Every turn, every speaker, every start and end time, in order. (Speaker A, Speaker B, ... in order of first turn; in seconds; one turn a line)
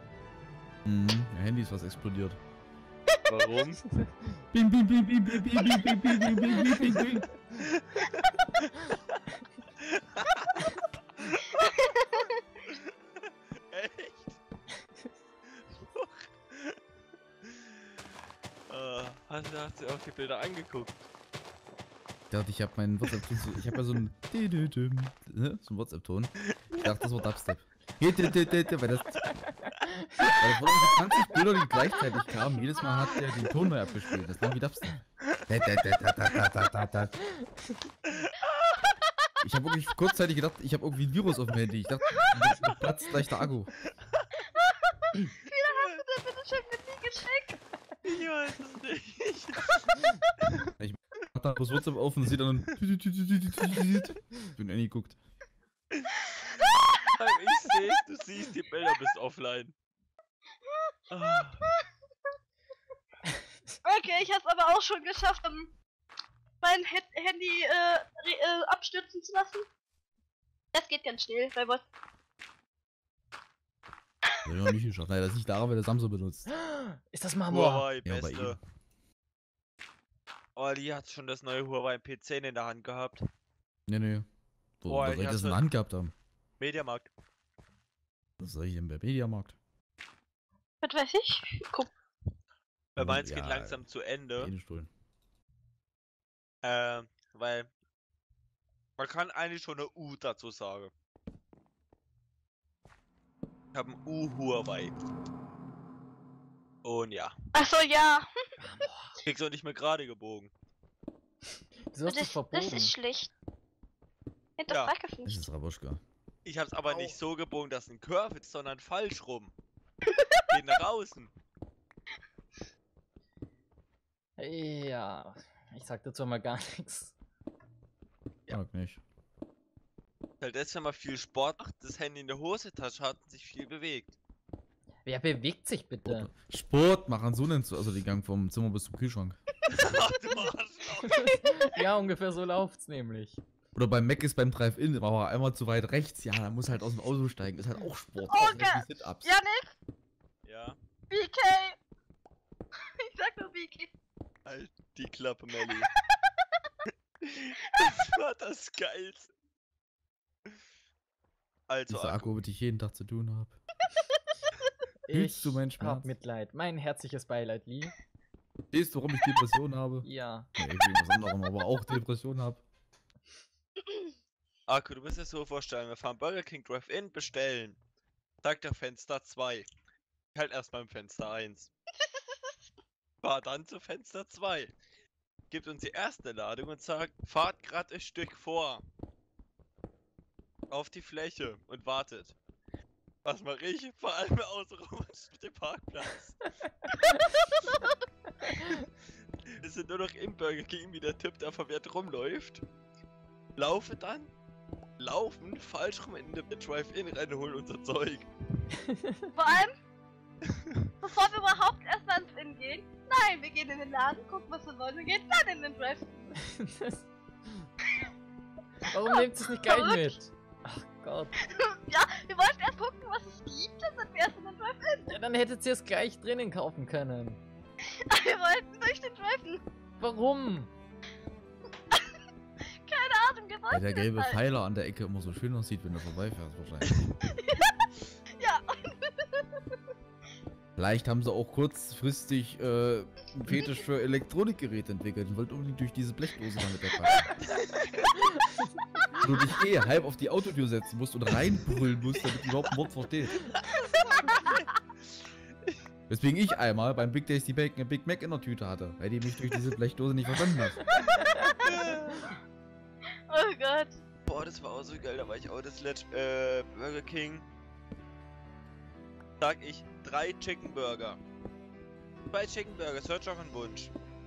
Speaker A: 0.8-2.4
Speaker B: 3.3-3.8
Speaker C: 3.9-4.2
Speaker A: 4.5-7.3
Speaker B: 5.7-6.9
Speaker B: 7.6-8.9
Speaker B: 9.8-12.0
Speaker D: 11.7-12.3
Speaker B: 12.7-14.4
Speaker B: 15.6-16.8
Speaker B: 17.4-17.8
Speaker B: 18.7-21.0
Speaker A: 22.3-29.3
Speaker C: 29.2-30.4
Speaker A: 30.3-37.2
Speaker C: 37.4-37.8
Speaker B: 38.2-38.7
Speaker A: 39.4-43.7
Speaker D: 42.2-42.7
Speaker D: 44.5-47.6
Speaker B: 45.7-46.0
Speaker B: 48.0-50.0
Speaker A: 50.8-55.2
Speaker B: 57.1-59.7
Speaker D: 60.7-60.9
Speaker B: 61.1-61.7
Speaker D: 63.8-65.7
Speaker D: 66.6-69.7
Speaker D: 70.7-71.8
Speaker A: 74.4-76.5
Speaker C: 76.5-77.9
Speaker B: 77.5-78.6
Speaker A: 78.0-78.6
Speaker B: 80.5-83.2
Speaker A: 83.9-84.3
Speaker A: 84.8-86.1
Speaker B: 84.9-85.6
Speaker B: 86.6-87.1
Speaker A: 88.4-89.5
Speaker D: 90.8-91.9
Speaker B: 92.9-94.5
Speaker A: 93.0-93.8
Speaker A: 94.4-94.9
Speaker B: 96.6-97.7
Speaker B: 99.0-100.9
Speaker B: 103.7-104.9
Speaker B: 106.8-107.4
Speaker D: 107.5-108.3
Speaker C: 108.6-109.2
Speaker B: 109.2-110.5
Speaker C: 111.9-112.9
Speaker D: 112.1-113.3
Speaker D: 114.6-115.4
Speaker A: 115.2-116.0
Speaker B: 116.4-119.5
Speaker C: 116.9-117.2
Speaker B: 120.5-121.3
Speaker C: 124.4-127.2
Speaker A: 128.5-129.0
Speaker B: 130.4-134.2
Speaker C: 135.1-136.3
Speaker A: 136.1-139.4
Speaker B: 139.7-141.4
Speaker C: 141.1-143.4
Speaker D: 141.3-141.7
Speaker A: 143.8-149.3
Speaker D: 148.3-149.8
Speaker B: 150.4-150.8
Speaker D: 151.1-151.8
Speaker D: 153.0-153.9
Speaker B: 154.5-155.9
Speaker D: 155.6-156.2
Speaker B: 157.2-159.3
Speaker B: 161.7-162.3
Speaker A: 161.9-163.6
Speaker C: 165.0-167.9
Speaker A: 165.1-166.1
Speaker A: 168.7-172.6
Speaker C: 170.0-170.5
Speaker D: 173.8-174.1
Speaker B: 174.7-177.8
Speaker B: 178.4-179.7
Speaker B: 180.3-181.7
Speaker D: 182.1-182.5
Speaker B: 183.2-184.7
Speaker B: 185.5-188.8
Speaker B: 190.7-192.4
Speaker B: 193.2-196.5
Speaker D: 197.1-197.9
Speaker C: 198.4-198.8
Speaker B: 199.6-202.6
Speaker B: 203.6-204.3
Speaker B: 205.0-208.3
Speaker C: 208.8-209.3
Speaker D: 209.3-209.7
Speaker D: 211.0-216.2
Speaker C: 216.4-217.7
Speaker C: 218.8-221.4
Speaker D: 219.1-220.1
Speaker D: 221.4-225.2
Speaker C: 225.1-227.4
Speaker D: 227.8-229.6
Speaker C: 230.0-230.7
Speaker D: 231.9-234.4
Speaker A: 233.7-237.0
Speaker D: 237.2-237.8
Speaker D: 238.4-239.6
Speaker A: 240.8-247.3
Speaker B: 247.6-248.0
Speaker A: 249.2-253.5
Speaker B: 252.2-252.6
Speaker B: 253.4-254.6
Speaker D: 254.2-254.4
Speaker A: 256.1-260.9
Speaker C: 260.9-261.5
Speaker B: 261.1-262.2
Speaker D: 261.3-261.8
Speaker D: 263.3-263.9
Speaker B: 264.2-267.5
Speaker B: 269.4-271.2
Speaker B: 272.3-273.9